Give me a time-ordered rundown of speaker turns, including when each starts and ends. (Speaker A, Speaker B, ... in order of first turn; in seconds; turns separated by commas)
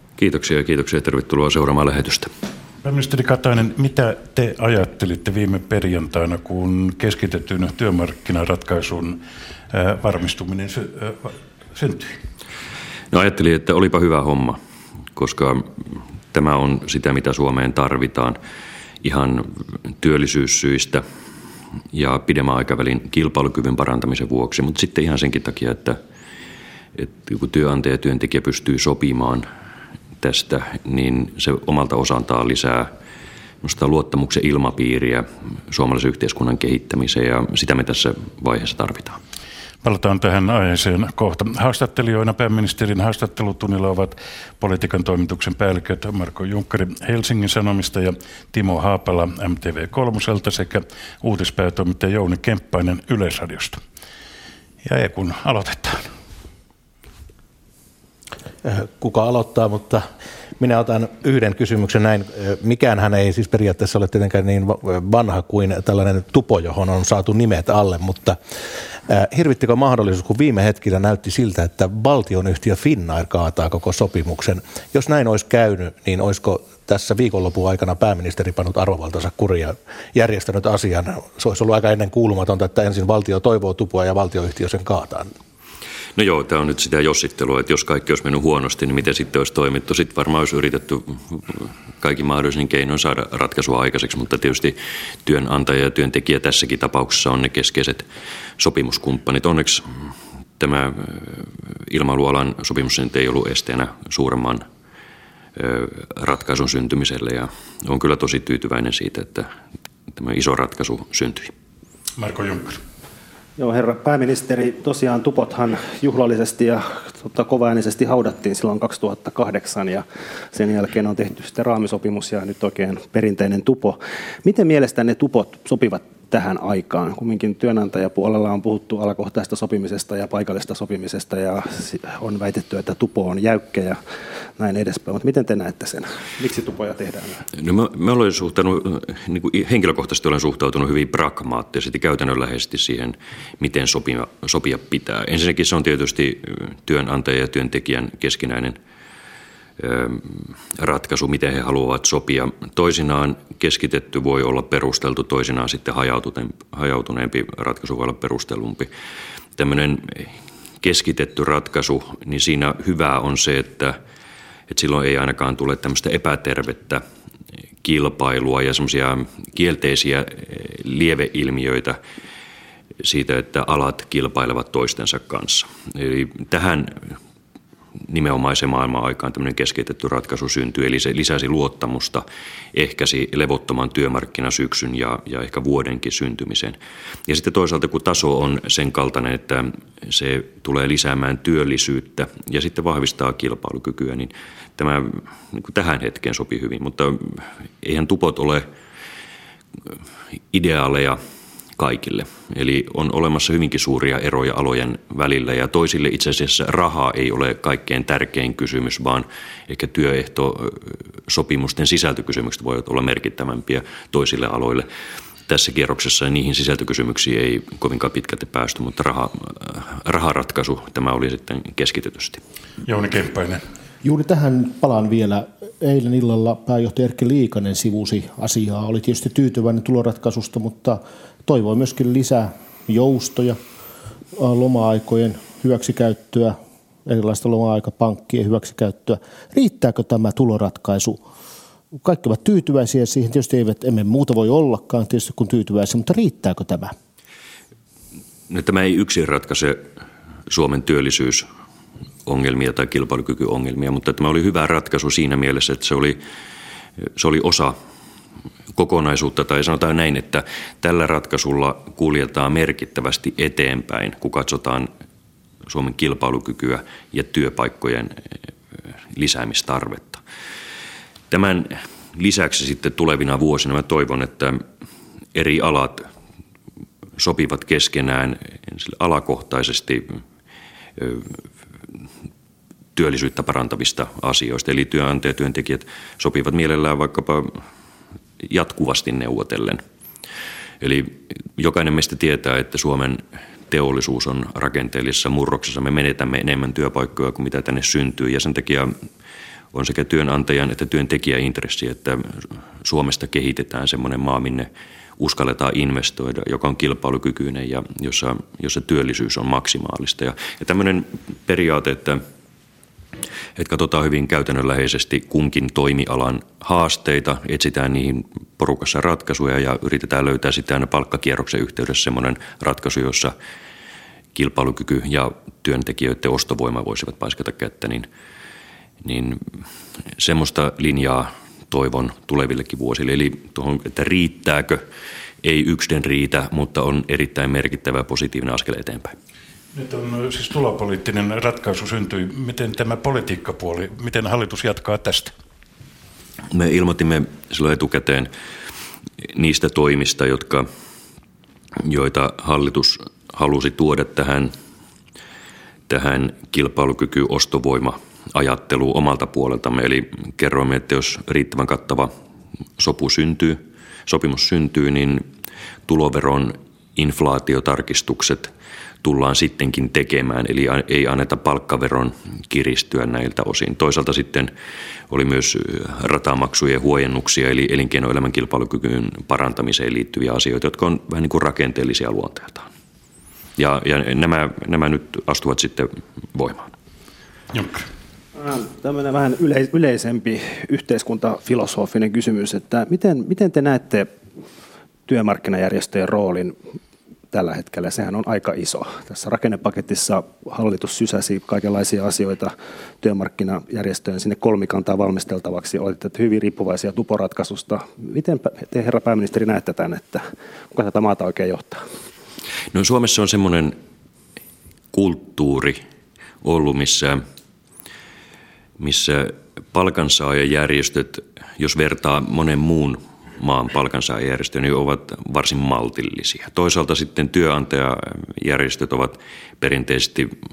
Speaker A: 0.2-2.3, Speaker B: 2.8-9.2, Speaker B: 9.7-12.2, Speaker A: 13.1-14.6, Speaker A: 15.2-15.7, Speaker A: 16.3-18.4, Speaker A: 19.0-21.0, Speaker A: 21.9-26.0, Speaker A: 27.0-29.4, Speaker A: 30.2-32.9, Speaker A: 33.6-39.2, Speaker B: 39.8-53.8, Speaker B: 54.8-56.1, Speaker C: 58.6-60.0, Speaker C: 60.6-68.4, Speaker C: 69.1-85.3, Speaker A: 86.2-98.0, Speaker A: 98.6-100.0, Speaker A: 100.6-104.6, Speaker A: 105.5-109.5, Speaker A: 110.1-111.5, Speaker B: 112.2-112.8, Speaker D: 113.6-134.0, Speaker D: 134.6-137.4, Speaker A: 137.5-148.8, Speaker A: 149.8-158.9, Speaker A: 159.6-163.9, Speaker A: 164.7-167.0, Speaker A: 167.8-172.0, Speaker A: 173.0-177.1, Speaker A: 178.1-198.7, Speaker A: 200.5-201.2, Speaker A: 201.8-214.9, Speaker A: 215.5-222.4, Speaker B: 222.8-223.6, Speaker E: 224.0-233.6, Speaker E: 234.3-241.2, Speaker E: 242.0-246.9, Speaker A: 248.5-249.8, Speaker A: 250.5-251.4, Speaker A: 252.2-256.2, Speaker A: 257.1-257.8, Speaker A: 258.8-264.9, Speaker A: 265.7-268.2, Speaker A: 269.1-270.2, Speaker A: 271.3-274.6, Speaker A: 275.3-276.1, Speaker A: 277.2-280.2, Speaker A: 281.0-281.4, Speaker A: 282.9-287.5, Speaker A: 288.4-289.8, Speaker A: 290.8-298.9, Speaker A: 299.7-304.7, Speaker A: 305.2-312.2, Speaker A: 313.6-323.3, Speaker A: 324.3-328.1, Speaker A: 329.0-329.4, Speaker A: 330.2-334.8, Speaker A: 335.4-339.1, Speaker B: 339.7-345.3, Speaker A: 346.5-348.3, Speaker A: 349.3-350.7, Speaker A: 351.8-354.5, Speaker A: 355.9-362.1, Speaker A: 362.8-365.2, Speaker A: 365.9-368.5, Speaker A: 369.0-374.5, Speaker A: 375.1-382.7, Speaker A: 383.6-386.7, Speaker B: 387.5-387.9, Speaker D: 388.3-394.1, Speaker D: 395.1-396.5, Speaker D: 397.3-411.8, Speaker A: 412.7-413.8, Speaker A: 414.9-415.8, Speaker A: 416.4-417.2, Speaker A: 418.8-430.3